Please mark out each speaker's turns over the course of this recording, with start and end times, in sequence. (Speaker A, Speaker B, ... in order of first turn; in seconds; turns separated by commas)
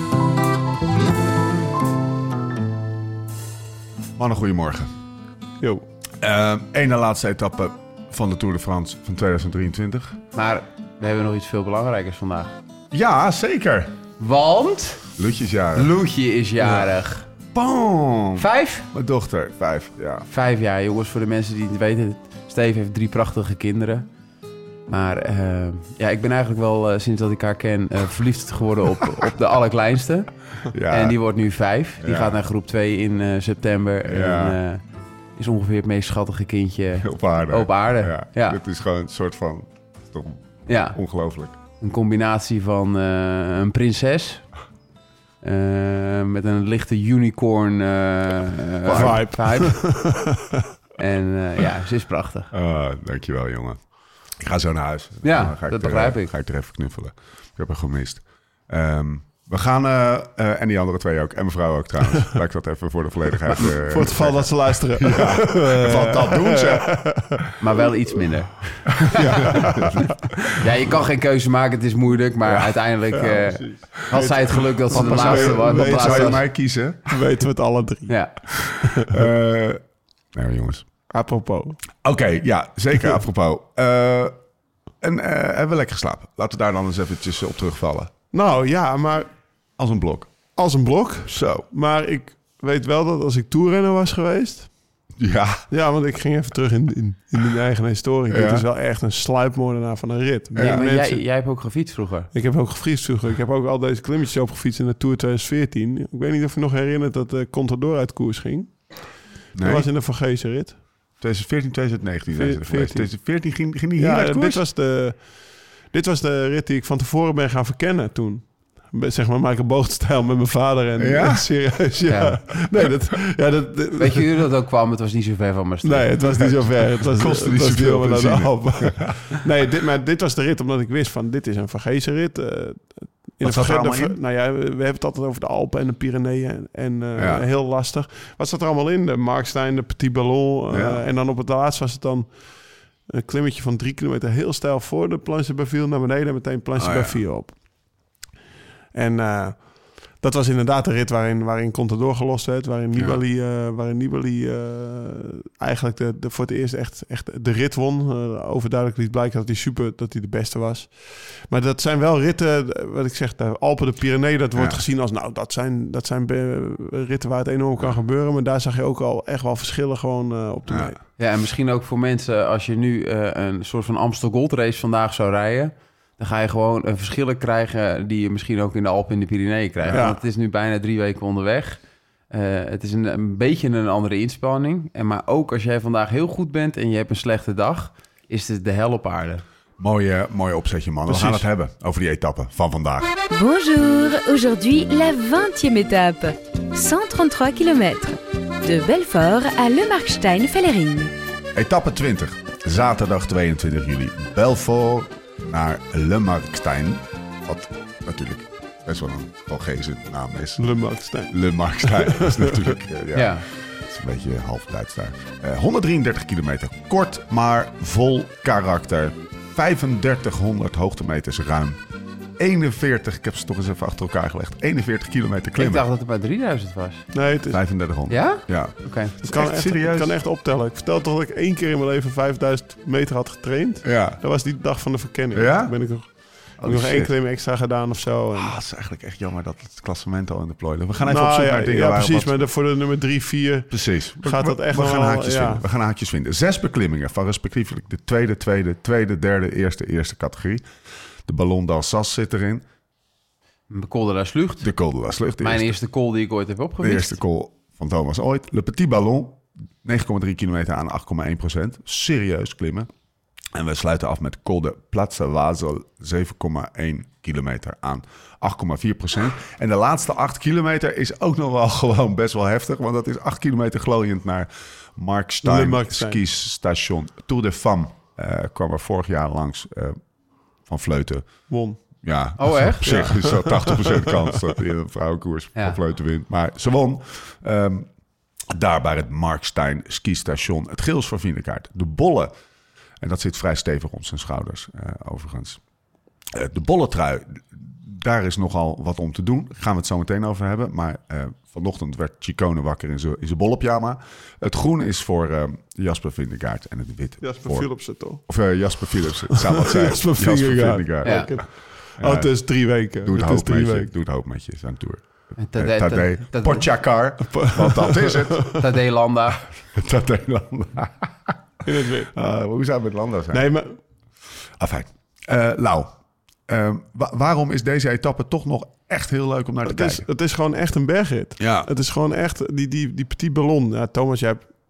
Speaker A: 4.2-4.9, Speaker A: 6.2-10.2, Speaker B: 10.3-12.5, Speaker A: 12.9-13.9, Speaker B: 14.2-15.1, Speaker A: 15.2-16.0, Speaker B: 15.8-17.3, Speaker A: 16.6-16.9, Speaker A: 17.5-20.3, Speaker B: 18.4-18.9, Speaker B: 20.3-24.1, Speaker B: 24.9-30.3, Speaker A: 30.7-31.2, Speaker B: 30.9-34.8, Speaker A: 32.0-32.4, Speaker A: 34.0-34.6, Speaker B: 35.4-38.6, Speaker A: 37.0-41.6, Speaker B: 40.7-41.0, Speaker B: 41.8-44.5, Speaker B: 45.4-49.8, Speaker A: 48.9-49.3, Speaker C: 48.9-50.6, Speaker B: 51.0-52.5, Speaker A: 52.5-53.8, Speaker A: 54.4-67.1, Speaker B: 55.2-56.3, Speaker C: 63.5-67.4, Speaker B: 67.6-69.5, Speaker C: 69.2-70.2, Speaker A: 69.2-70.6, Speaker B: 70.6-76.4, Speaker C: 72.5-76.5, Speaker A: 75.4-77.1, Speaker C: 77.1-79.3, Speaker B: 78.1-78.4, Speaker A: 78.7-79.8, Speaker A: 80.3-80.9, Speaker C: 81.1-81.8, Speaker A: 82.0-84.3, Speaker A: 85.0-88.1, Speaker C: 88.3-89.3, Speaker A: 89.8-90.3, Speaker C: 90.6-94.7, Speaker A: 91.3-91.7, Speaker A: 95.2-95.6, Speaker C: 95.7-101.2, Speaker A: 98.3-98.7, Speaker A: 100.5-100.8, Speaker B: 100.6-102.3, Speaker C: 102.3-109.0, Speaker A: 109.5-109.9, Speaker C: 109.6-110.8, Speaker A: 111.2-114.6, Speaker C: 112.3-113.1, Speaker C: 114.0-124.3, Speaker A: 121.0-121.5, Speaker B: 122.1-122.4, Speaker B: 124.0-126.3, Speaker C: 125.8-142.4, Speaker A: 126.3-129.3, Speaker A: 133.4-134.2, Speaker A: 137.2-137.5, Speaker A: 140.7-141.1, Speaker C: 143.1-147.6, Speaker A: 146.8-147.2, Speaker C: 148.9-171.0, Speaker A: 164.6-164.8, Speaker A: 170.7-170.9, Speaker B: 171.2-189.4, Speaker C: 179.9-180.2, Speaker A: 189.8-193.1, Speaker C: 191.1-191.5, Speaker D: 193.3-201.1, Speaker A: 201.5-210.7, Speaker C: 210.6-212.7, Speaker A: 211.3-221.8, Speaker B: 213.1-213.5, Speaker A: 222.4-225.8, Speaker B: 225.6-227.1, Speaker C: 227.1-227.7, Speaker A: 227.5-230.2, Speaker B: 228.1-229.2, Speaker C: 229.2-238.5, Speaker A: 233.8-234.2, Speaker A: 235.3-237.1, Speaker A: 238.3-242.3, Speaker C: 241.0-245.7, Speaker A: 243.7-250.7, Speaker A: 251.3-252.6, Speaker B: 253.7-254.7, Speaker A: 254.6-255.8, Speaker B: 255.4-257.2, Speaker A: 256.8-262.9, Speaker A: 263.6-280.0, Speaker C: 275.4-276.2, Speaker A: 280.7-281.3, Speaker C: 281.5-281.8, Speaker A: 282.0-287.9, Speaker B: 282.4-283.2, Speaker C: 283.2-284.2, Speaker A: 288.5-292.3, Speaker A: 293.0-295.6, Speaker A: 296.3-311.5, Speaker C: 307.2-308.3, Speaker C: 309.3-313.9, Speaker B: 311.0-311.3, Speaker A: 312.0-318.5, Speaker B: 315.4-316.8, Speaker C: 317.3-318.6, Speaker B: 318.6-319.5, Speaker A: 319.6-321.4, Speaker C: 321.6-322.1, Speaker A: 322.1-323.5, Speaker C: 323.3-323.8, Speaker A: 324.6-325.9, Speaker A: 326.5-330.1, Speaker C: 329.6-334.5, Speaker A: 331.4-331.7